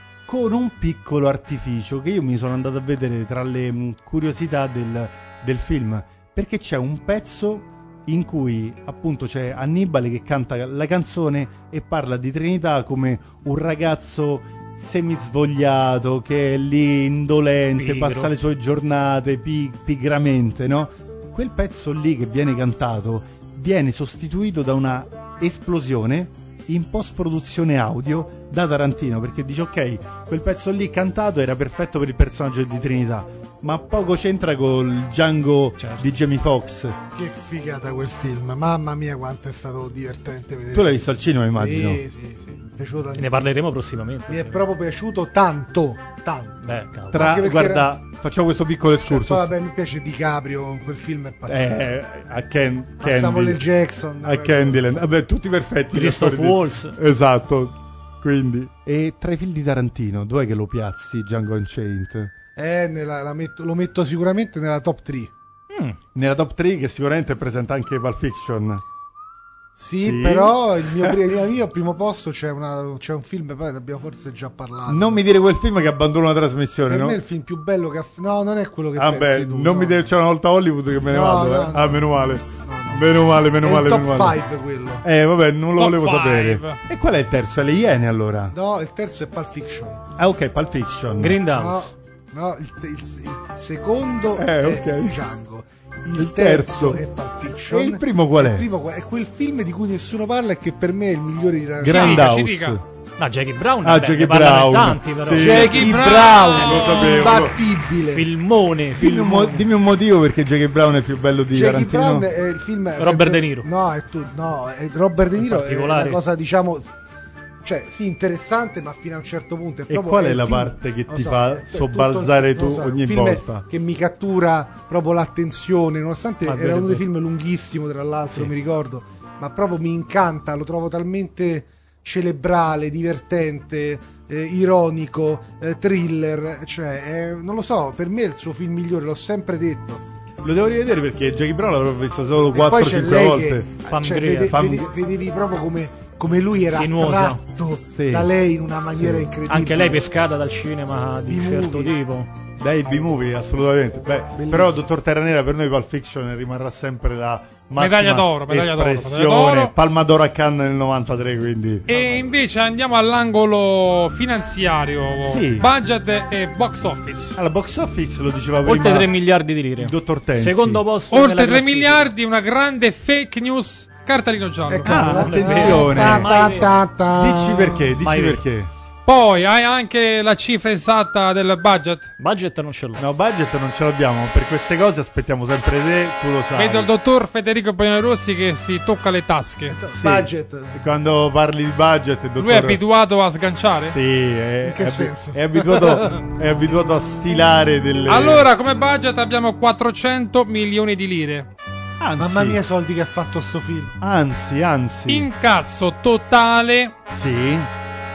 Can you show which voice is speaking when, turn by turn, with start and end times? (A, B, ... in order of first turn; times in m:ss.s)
0:00.2-0:37.0 A
0:17.8-0:18.3 B
0:35.8-0:36.1 B
0:37.1-0:41.0 C
0:40.7-0:42.0 A
0:41.5-0:43.5 C
0:43.2-0:44.6 B
0:44.3-0:47.9 C
0:46.6-0:47.2 B
0:47.1-0:49.5 A
0:49.0-0:51.9 C
0:51.5-0:53.6 A
0:53.0-0:55.0 C
0:54.2-1:02.3 A
0:55.9-0:57.0 B
1:02.6-1:05.3 C
1:05.7-1:06.0 B
1:06.1-1:08.8 A
1:09.8-1:15.2 C
1:10.0-1:11.2 A
1:14.9-1:17.2 A
1:16.9-1:20.1 C
1:18.9-1:24.4 A
1:21.1-1:22.1 C
1:22.6-1:25.0 C
1:25.0-1:28.5 A
1:25.8-1:26.8 D
1:28.5-1:30.0 C
1:30.2-1:31.4 A
1:31.2-1:31.9 B
1:31.5-1:42.3 C
1:34.3-1:35.2 A
1:36.1-1:37.0 A
1:37.7-1:38.7 A
1:41.8-1:42.8 A
1:41.8-1:42.8 D
1:43.2-1:45.7 B
1:43.8-1:47.6 A
1:45.3-1:48.3 C
1:45.4-1:47.4 D
1:48.1-1:49.6 B
1:49.0-1:52.3 A
1:51.5-1:56.9 C
1:53.0-1:53.7 B
1:55.4-1:56.2 B
1:57.6-2:20.0 C
1:59.9-2:03.6 A
2:06.4-2:07.0 B
2:20.4-2:23.7 A
2:22.5-2:30.0 C
2:23.8-2:24.6 B
2:24.5-2:24.9 A
2:26.7-2:27.4 B
2:27.9-2:28.3 A
2:28.9-2:29.3 A
2:29.5-2:32.3 B
2:31.3-2:31.9 C
2:32.6-2:41.9 A
2:34.4-2:34.8 C
2:37.8-2:39.7 D
2:41.9-2:47.4 D
2:41.9-2:42.1 C
2:45.2-2:45.7 A
2:47.4-2:49.1 A
2:48.6-2:52.1 B
2:49.8-2:50.8 A
2:51.1-2:55.1 D
2:54.7-2:57.9 C
2:54.8-2:58.7 A
2:55.0-2:56.7 B
2:58.0-2:58.4 B
2:59.0-3:02.1 D
3:02.2-3:03.0 B
3:03.0-3:06.9 A
3:06.5-3:09.8 D
3:09.7-3:10.8 C
3:09.9-3:12.8 A
3:12.4-3:14.0 D
3:13.9-3:18.5 A
3:14.6-3:16.2 C
3:18.1-3:21.5 D
3:22.0-3:22.6 A
3:22.2-3:24.0 C
3:24.0-3:25.3 A
3:25.1-3:26.9 D
3:27.1-3:27.7 A